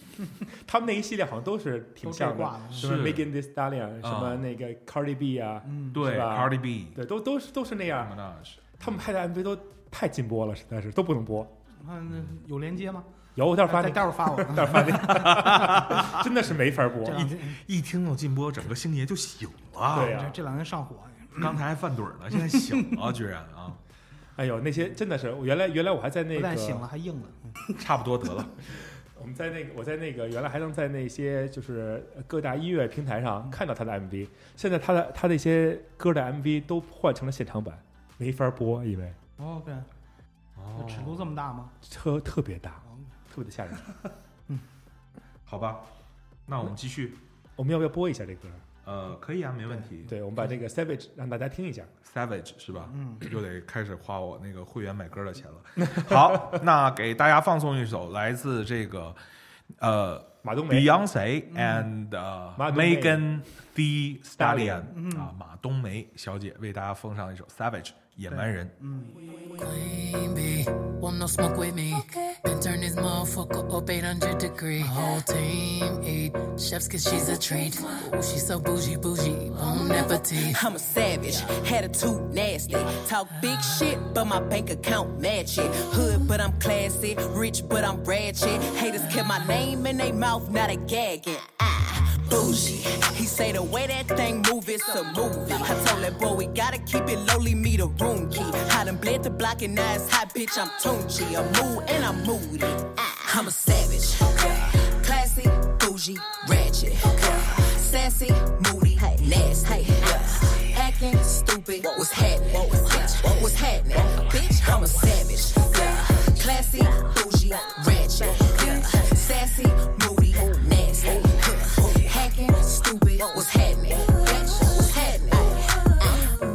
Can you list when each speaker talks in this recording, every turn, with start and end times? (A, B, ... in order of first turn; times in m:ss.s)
0:00.5-0:08.2 A
0:02.0-0:02.9 B
0:02.8-0:03.3 C
0:04.0-0:04.5 C
0:05.6-0:06.0 B
0:05.9-0:07.0 C
0:07.9-0:09.0 C
0:08.8-0:11.5 A
0:11.8-0:15.3 B
0:12.1-0:12.4 C
0:13.4-0:17.3 A
0:14.9-0:16.3 C
0:17.0-0:17.6 B
0:17.0-0:20.2 C
0:19.9-0:20.4 A
0:20.0-0:21.6 B
0:21.4-0:23.8 C
0:22.5-0:22.8 B
0:24.4-0:26.9 A
0:26.3-0:27.6 B
0:27.7-0:28.6 C
0:28.7-0:39.2 A
0:39.4-0:39.9 B
0:40.6-0:41.4 C
0:40.8-0:41.7 B
0:41.8-0:43.9 A
0:45.5-0:45.9 C
0:46.5-0:47.2 C
0:47.6-0:48.6 A
0:48.8-0:50.2 C
0:50.0-0:51.9 A
0:52.0-0:59.2 C
0:52.8-0:53.3 B
0:55.8-0:56.6 A
0:59.8-1:08.7 C
1:00.4-1:00.9 A
1:01.5-1:01.9 B
1:02.6-1:03.3 A
1:04.4-1:04.9 A
1:04.9-1:05.3 B
1:08.3-1:09.2 B
1:09.5-1:20.6 D
1:20.4-2:06.3 E